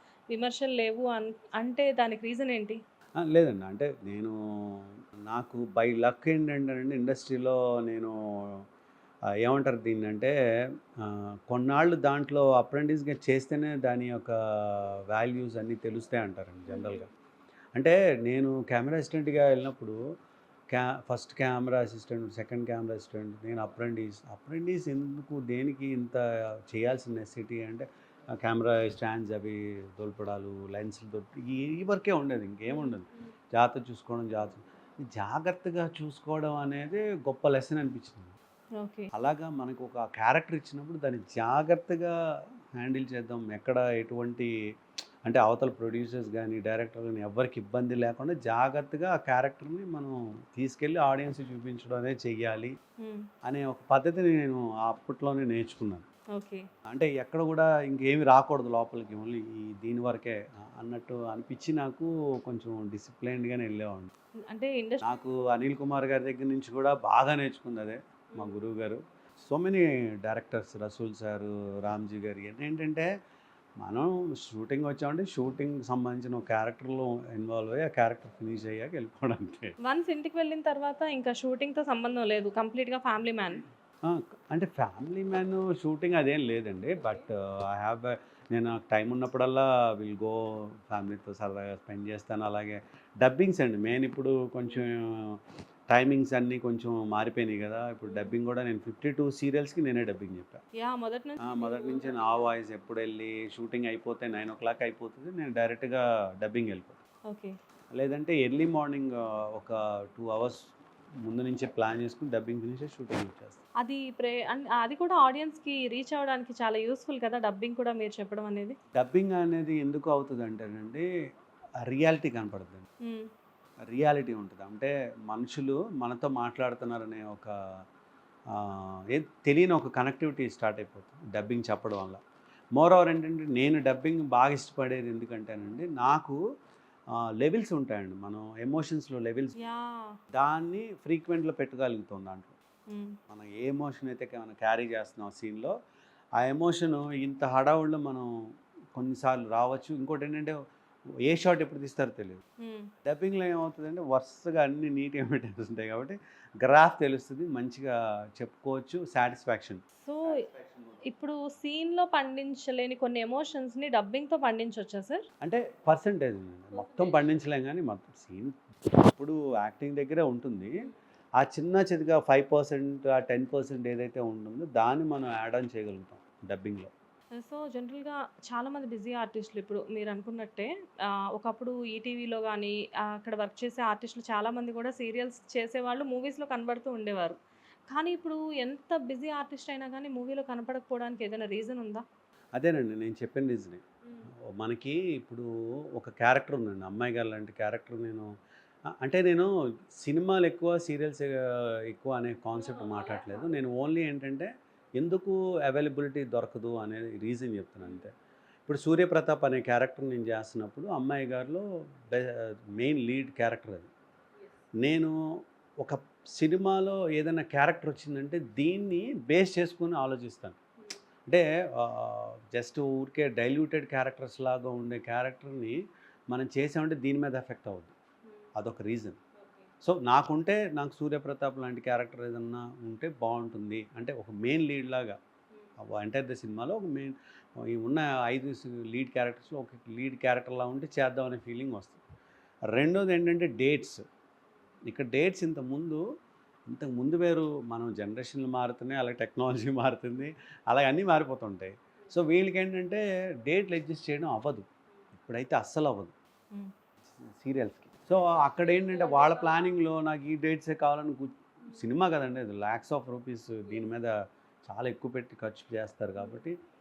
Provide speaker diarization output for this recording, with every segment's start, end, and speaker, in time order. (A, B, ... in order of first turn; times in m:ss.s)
0:00.3-0:02.8 A
0:03.2-0:08.6 B
0:09.4-0:10.3 B
0:11.0-0:17.1 B
0:16.7-0:17.1 A
0:17.8-0:20.0 B
0:20.7-0:27.8 B
0:28.4-0:34.6 B
0:32.7-0:33.0 A
0:35.1-0:38.3 B
0:38.8-0:39.1 A
0:39.1-0:42.2 B
0:42.8-0:44.5 B
0:45.3-0:52.7 B
0:53.0-0:53.3 A
0:53.4-0:56.0 B
0:56.4-0:56.7 A
0:56.9-1:04.1 B
1:04.5-1:05.2 A
1:05.0-1:13.1 B
1:13.8-1:19.7 B
1:19.8-1:23.6 A
1:24.0-1:35.4 B
1:35.9-1:40.6 B
1:40.8-1:42.4 A
1:41.4-1:47.0 B
1:47.3-1:47.6 A
1:47.9-1:50.7 B
1:51.3-1:53.6 B
1:53.8-1:58.8 A
1:59.0-2:01.1 B
2:01.9-2:02.8 B
2:03.8-2:07.5 B
2:08.5-2:12.2 B
2:12.8-2:16.4 B
2:17.4-2:19.6 B
2:19.6-2:20.2 A
2:20.3-2:22.6 B
2:22.9-2:23.2 A
2:23.3-2:25.7 B
2:26.4-2:28.3 B
2:29.0-2:30.6 B
2:31.3-2:32.4 B
2:32.6-2:32.9 A
2:33.0-2:41.0 B
2:40.0-2:40.5 A
2:41.1-2:45.2 A
2:45.4-2:50.7 B
2:51.4-2:56.9 B
2:57.4-3:00.7 A
3:01.3-3:07.4 A
3:07.9-3:12.0 A
3:12.6-3:13.8 B
3:14.5-3:18.3 B
3:19.0-3:19.5 B
3:20.0-3:28.1 B
3:28.7-3:33.9 B
3:34.8-3:35.2 B
3:35.8-3:40.6 B
3:41.3-3:45.8 B
3:46.3-3:47.9 B
3:48.6-3:49.2 B
3:49.8-3:55.2 B
3:55.8-4:02.0 B
4:02.7-4:04.0 B
4:04.9-4:06.0 B
4:06.7-4:14.7 B
4:15.2-4:16.1 B
4:17.2-4:24.1 B
4:24.7-4:26.6 B